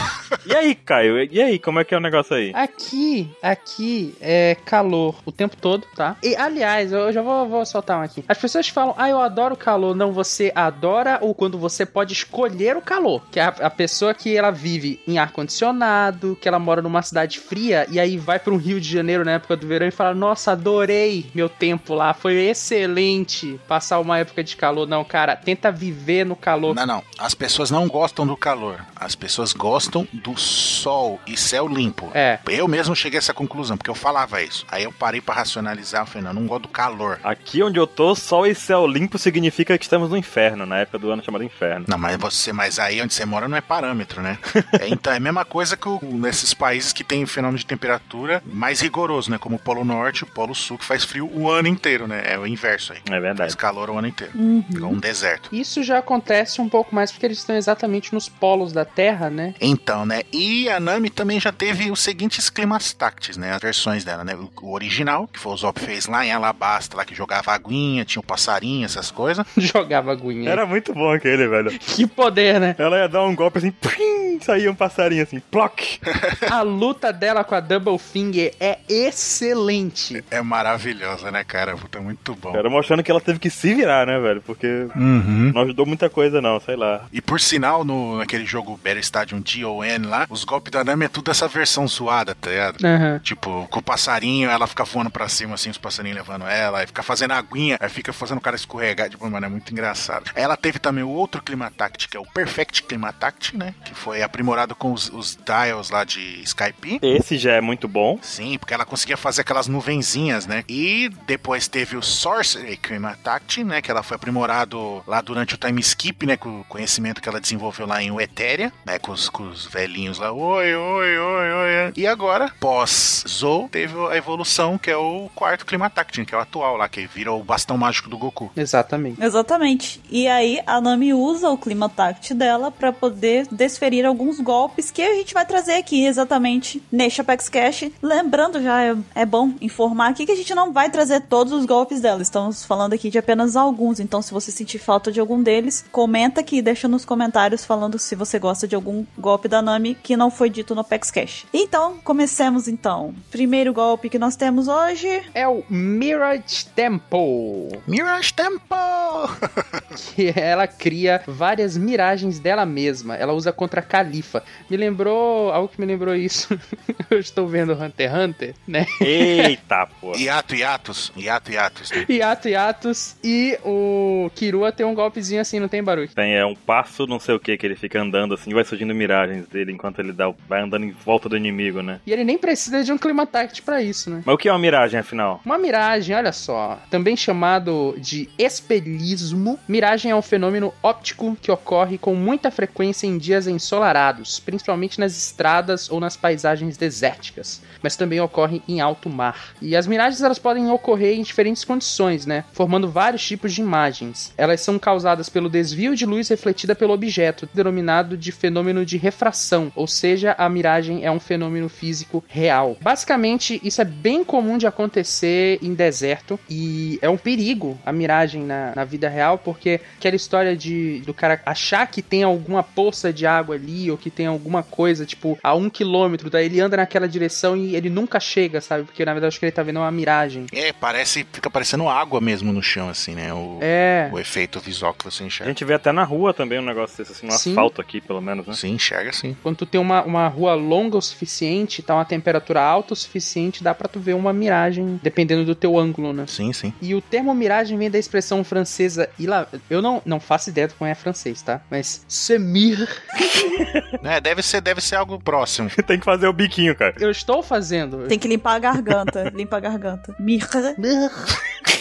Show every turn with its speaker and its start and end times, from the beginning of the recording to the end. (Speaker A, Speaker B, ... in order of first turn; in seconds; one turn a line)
Speaker A: 0.4-2.5
Speaker B: 2.5-26.8
Speaker C: 26.7-37.2
Speaker B: 32.1-32.4
Speaker A: 37.2-41.9
Speaker C: 41.9-55.5
Speaker A: 53.0-53.5
Speaker D: 54.4-55.0
Speaker B: 55.5-59.5
Speaker C: 59.6-69.5
Speaker B: 69.5-70.6
Speaker A: 70.4-71.8
Speaker B: 71.7-72.8
Speaker A: 72.8-76.0
Speaker B: 76.5-80.2
Speaker C: 80.2-82.6
Speaker A: 82.5-85.0
Speaker C: 85.0-85.5
Speaker A: 85.5-87.1
Speaker C: 87.1-107.0
Speaker B: 92.8-93.2
Speaker A: 107.0-108.2
Speaker C: 108.2-128.5
Speaker B: 128.6-129.2
Speaker D: 129.2-155.3
Speaker B: 155.3-157.8
Speaker C: 157.9-159.3
Speaker B: 159.9-169.5
Speaker A: 169.0-170.2
Speaker C: 170.1-172.0
Speaker B: 171.9-176.1
Speaker A: 176.2-182.0
Speaker B: 182.1-184.3
Speaker A: 184.2-185.4
Speaker B: 185.4-230.5
Speaker C: 230.5-235.5
Speaker B: 233.6-234.2
Speaker A: 235.4-238.6
Speaker B: 237.3-237.7
Speaker C: 238.5-239.4
Speaker B: 239.4-253.0
Speaker C: 246.3-246.8
Speaker C: 254.0-255.7
Speaker A: 255.7-257.0
Speaker B: 257.0-258.2
Speaker D: 258.1-260.8
Speaker B: 260.8-261.3